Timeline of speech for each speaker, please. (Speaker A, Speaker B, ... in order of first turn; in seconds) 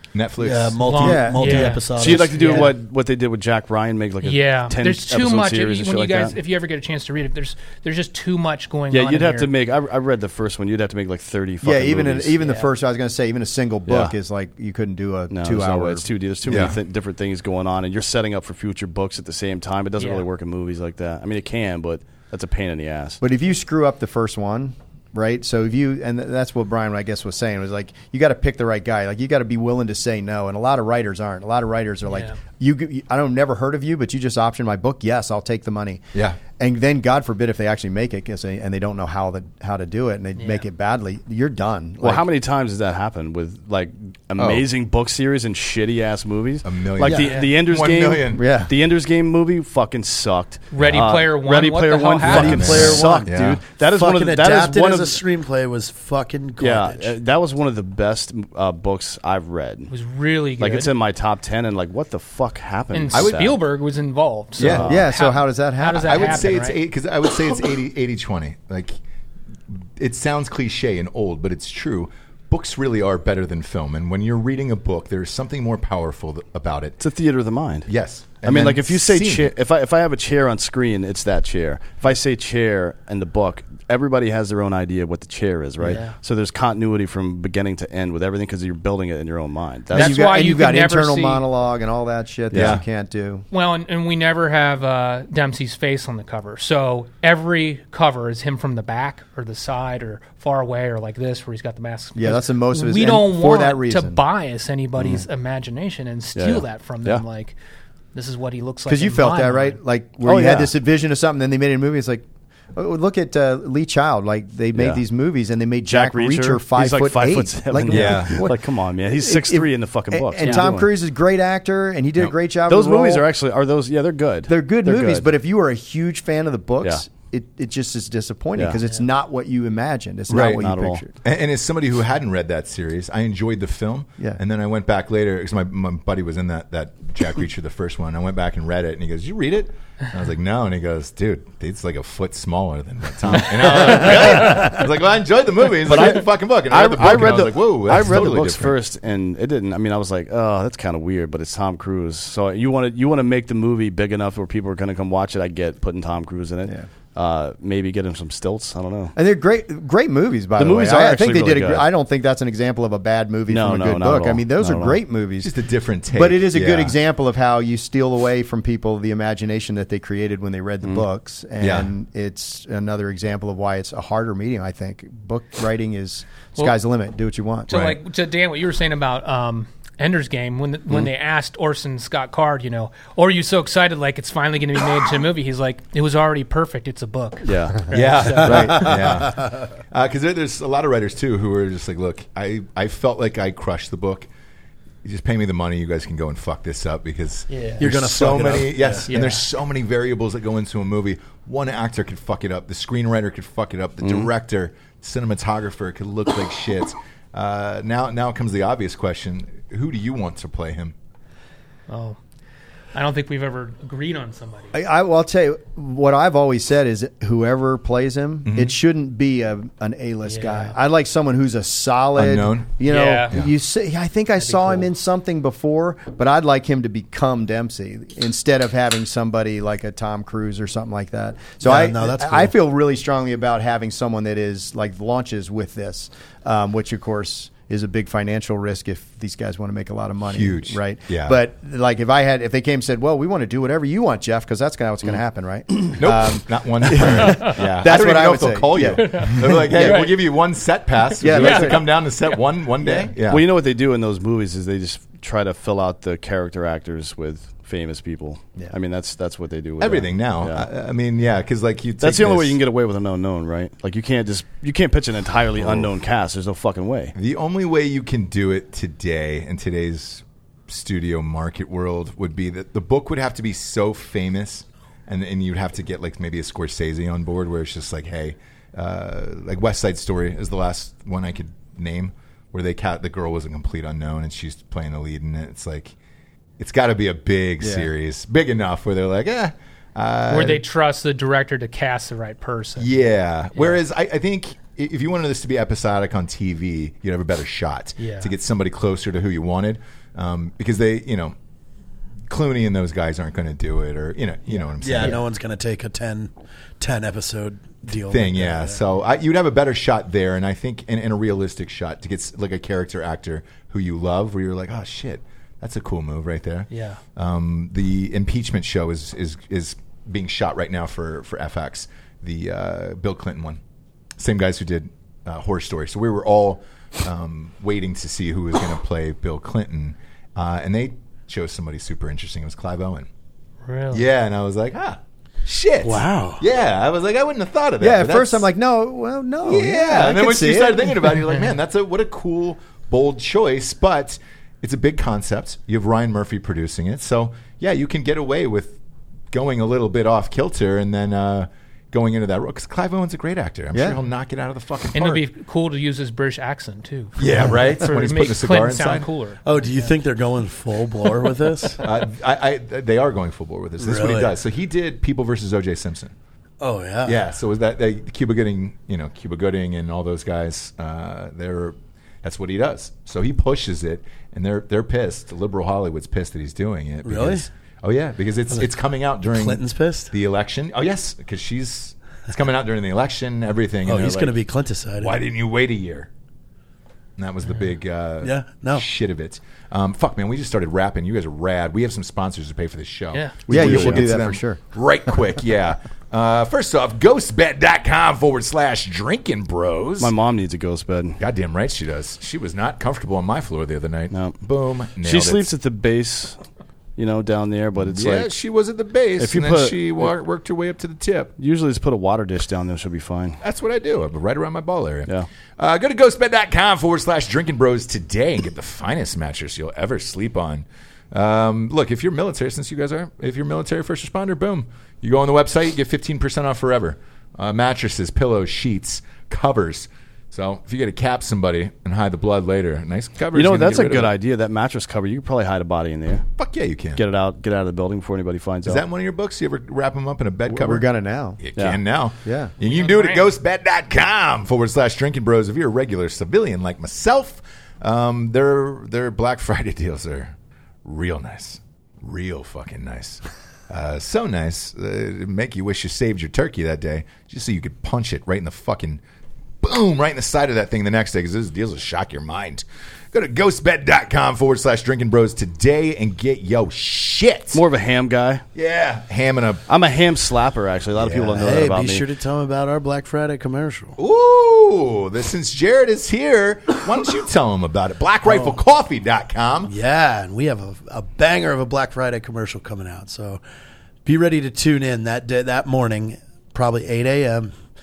Speaker A: 0.1-1.2, 16.4-16.8, 36.1-36.4, 44.4-44.6, 46.6-48.5, 50.8-51.1, 52.2-53.6, 63.1-63.4, 64.6-65.0, 65.9-69.0, 69.7-77.0, 77.9-79.5, 92.5-92.8, 117.9-118.5, 130.3-130.6, 131.2-148.7, 165.4-166.9, 171.6-171.9, 177.7-178.0, 187.9-194.3, 195.0-210.9, 218.4-218.7, 222.2-222.7, 240.2-241.3, 246.0-253.4, 259.8-262.6, 265.6-265.9, 267.1-285.9, 286.6-290.6, 292.8-301.3, 302.3-305.2, 307.9-323.6, 324.2-333.1, 333.9-338.4, 339.4-348.8, 349.3-355.2, 357.2-359.1, 361.8-366.1, 367.0-384.4, 385.0-386.1, 387.2-400.1, 401.2-405.5, 407.8-411.3, 413.4-434.1, 436.4-437.0, 438.6-440.8, 441.4-459.0, 459.6-467.6, 468.5-469.6, 471.0-471.3, 474.0-479.7
Speaker B: 0.4-2.7, 47.0-47.3, 52.3-57.1, 197.8-199.1, 231.6-232.5, 304.8-308.8, 335.8-336.4, 359.4-361.8, 363.8-364.4, 366.6-367.2, 377.0-377.5, 379.2-380.1, 383.8-385.2, 388.2-388.8, 471.2-474.0, 478.2-478.6, 479.6-483.4, 484.0-487.5
Speaker C: 0.8-2.7, 4.2-9.5, 12.4-12.7, 20.0-20.2, 32.1-32.4, 40.4-40.6, 47.2-47.5, 50.7-52.9, 59.9-60.9, 62.9-66.8, 89.9-91.4, 93.5-107.6, 108.1-109.8, 120.4-120.7, 177.7-189.0, 197.5-197.9, 199.1-199.5, 211.9-212.2, 212.9-214.7, 220.2-220.8, 222.8-223.3, 224.4-224.8, 248.8-250.1, 251.2-252.4, 290.3-293.0, 293.5-293.8, 298.0-298.3, 316.7-317.0, 333.6-334.0, 354.9-359.9, 393.1-393.4, 442.6-443.3
Speaker D: 1.0-1.7, 11.6-16.1, 23.2-42.2, 48.3-48.7, 64.8-66.5, 89.9-93.5, 102.2-104.2, 108.9-118.5, 119.1-123.2, 124.5-131.1, 159.2-165.5, 166.1-177.9, 188.4-188.9, 214.7-250.1, 251.2-251.9, 252.8-253.1, 287.6-287.9, 337.8-341.3, 353.7-354.0, 393.5-394.6, 440.5-441.4, 442.2-442.5
Speaker E: 1.9-6.3, 8.9-12.4, 13.8-14.1, 15.3-23.2, 42.0-55.2, 56.6-59.9, 60.6-63.6, 64.6-65.0, 77.0-77.9, 78.4-90.2, 92.5-92.8, 106.3-107.2, 110.2-110.7, 114.7-115.0, 115.8-120.9, 122.7-125.3, 130.3-131.0, 145.8-159.1, 160.6-161.8, 163.5-165.0, 187.4-187.8, 204.0-204.3, 253.3-260.7, 262.0-267.1, 393.5-394.1, 400.0-401.2, 404.1-404.4, 405.0-406.4, 407.0-408.3, 409.2-410.1, 411.4-413.4, 433.3-436.3, 436.9-438.8, 467.5-468.4, 469.7-472.1